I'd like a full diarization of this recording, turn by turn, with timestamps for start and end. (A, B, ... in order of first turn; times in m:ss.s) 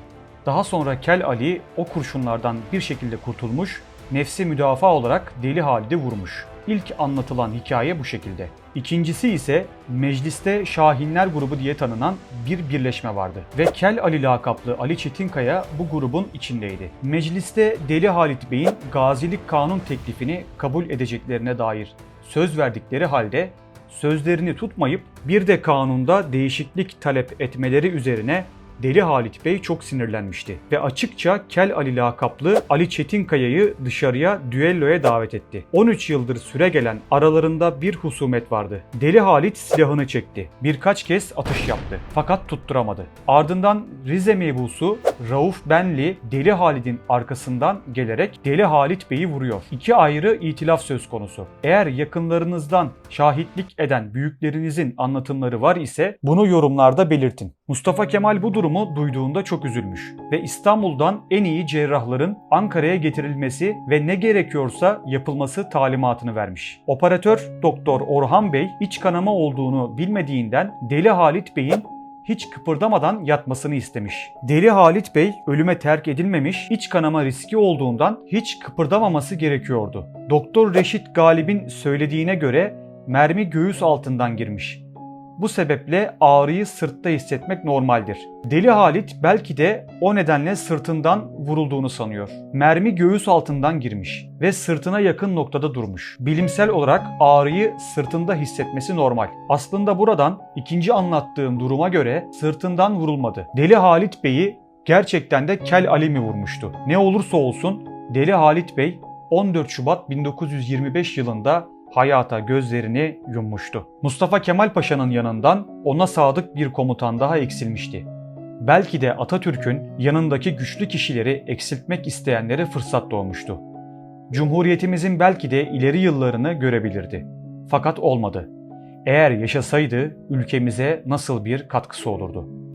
0:00.4-1:24.8 A
1:25.4-1:58.1 A
1:58.6-2:03.6 A
2:04.3-2:08.5 A
2:09.0-2:12.5 A